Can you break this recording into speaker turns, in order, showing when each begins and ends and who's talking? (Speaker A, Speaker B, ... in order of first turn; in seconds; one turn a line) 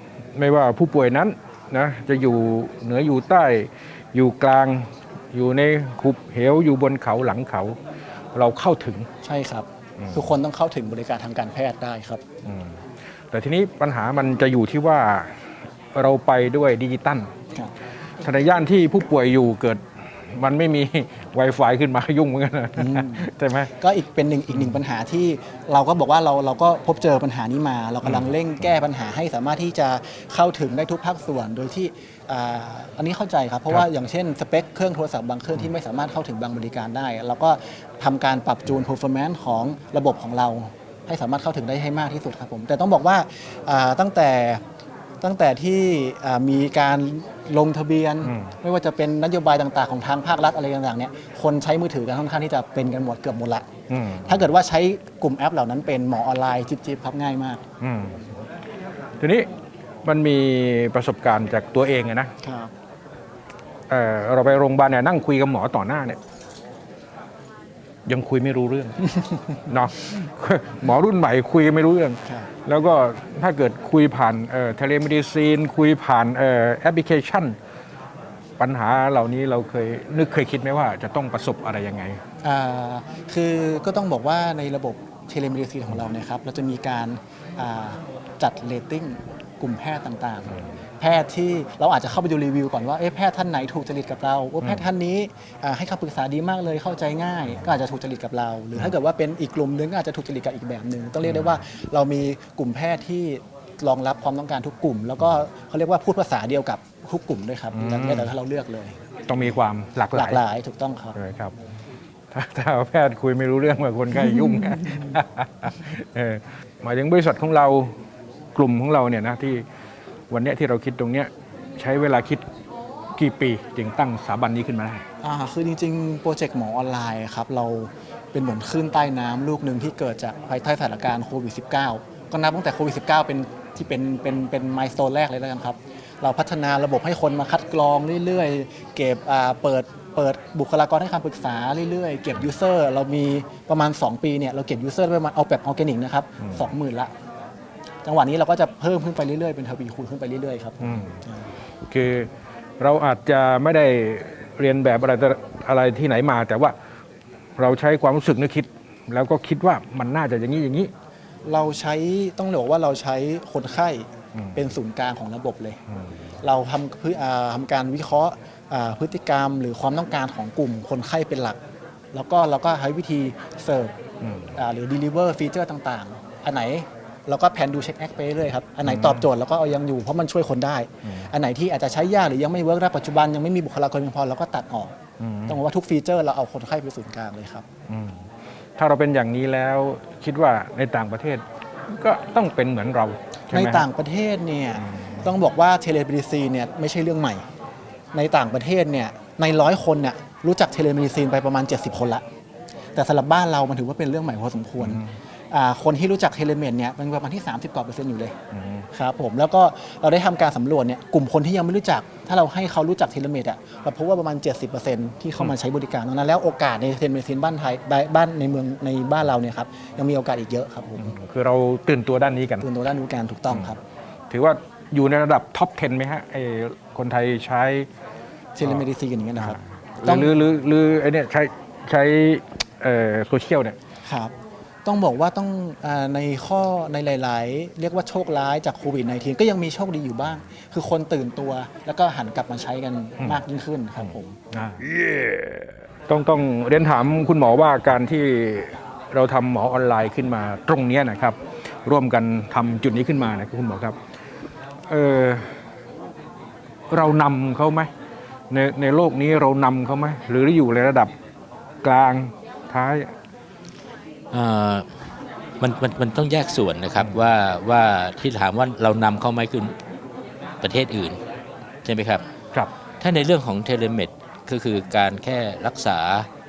Speaker A: 0.3-7.8
Speaker A: 8.3-9.1
Speaker B: 9.2-12.2
Speaker A: 10.0-10.3
Speaker A: 12.4-12.8
Speaker A: 13.3-15.3
Speaker A: 15.9-17.3
Speaker A: 18.2-19.8
Speaker A: 20.3-23.7
Speaker B: 22.8-44.6
Speaker B: 45.2-53.7
Speaker A: 48.2-48.5
Speaker A: 53.9-54.5
Speaker B: 54.2-57.6
Speaker A: 57.8-58.2
Speaker A: 59.2-59.5
Speaker A: 60.0-62.3
Speaker B: 62.4-62.7
Speaker A: 63.9-66.2
Speaker A: 68.1-69.0
Speaker A: 69.7-77.6
Speaker A: 78.6-82.2
Speaker B: 82.4-109.0
Speaker A: 101.2-101.6
Speaker A: 107.7-108.3
Speaker A: 109.3-110.4
Speaker B: 110.1-111.2
Speaker A: 111.2-111.5
Speaker A: 112.3-117.9
Speaker A: 118.5-119.6
Speaker A: 120.3-122.4
Speaker A: 123.2-125.0
Speaker B: 125.2-147.1
Speaker A: 146.4-146.7
Speaker B: 148.1-151.4
Speaker A: 150.8-151.2
Speaker A: 151.9-152.3
Speaker A: 152.8-156.8
Speaker A: 157.6-160.9
Speaker B: 161.5-165.8
Speaker A: 164.4-164.6
Speaker B: 166.4-171.6
Speaker B: 172.1-173.9
Speaker A: 174.2-174.6
Speaker B: 174.6-184.9
Speaker A: 178.9-179.3
Speaker A: 185.2-185.6
Speaker B: 185.5-187.7
Speaker A: 187.9-188.2
Speaker A: 188.8-193.9
Speaker B: 193.5-197.4
Speaker A: 194.8-195.3
Speaker B: 198.1-202.2
Speaker B: 202.9-208.3
Speaker A: 204.8-205.1
Speaker A: 208.5-208.9
Speaker B: 208.9-221.2
Speaker A: 221.0-222.7
Speaker B: 222.6-223.8
Speaker A: 224.3-227.9
Speaker B: 228.6-230.4
Speaker A: 229.4-233.8
Speaker B: 234.1-234.3
Speaker B: 234.8-244.3
Speaker A: 244.0-244.8
Speaker A: 246.1-254.0
Speaker A: 254.9-255.5
Speaker A: 256.9-257.9
Speaker A: 258.5-261.1
Speaker A: 261.8-263.1
Speaker C: 264.3-264.9
Speaker C: 265.6-269.7
Speaker C: 270.6-271.2
Speaker C: 271.9-272.2
Speaker C: 273.0-276.3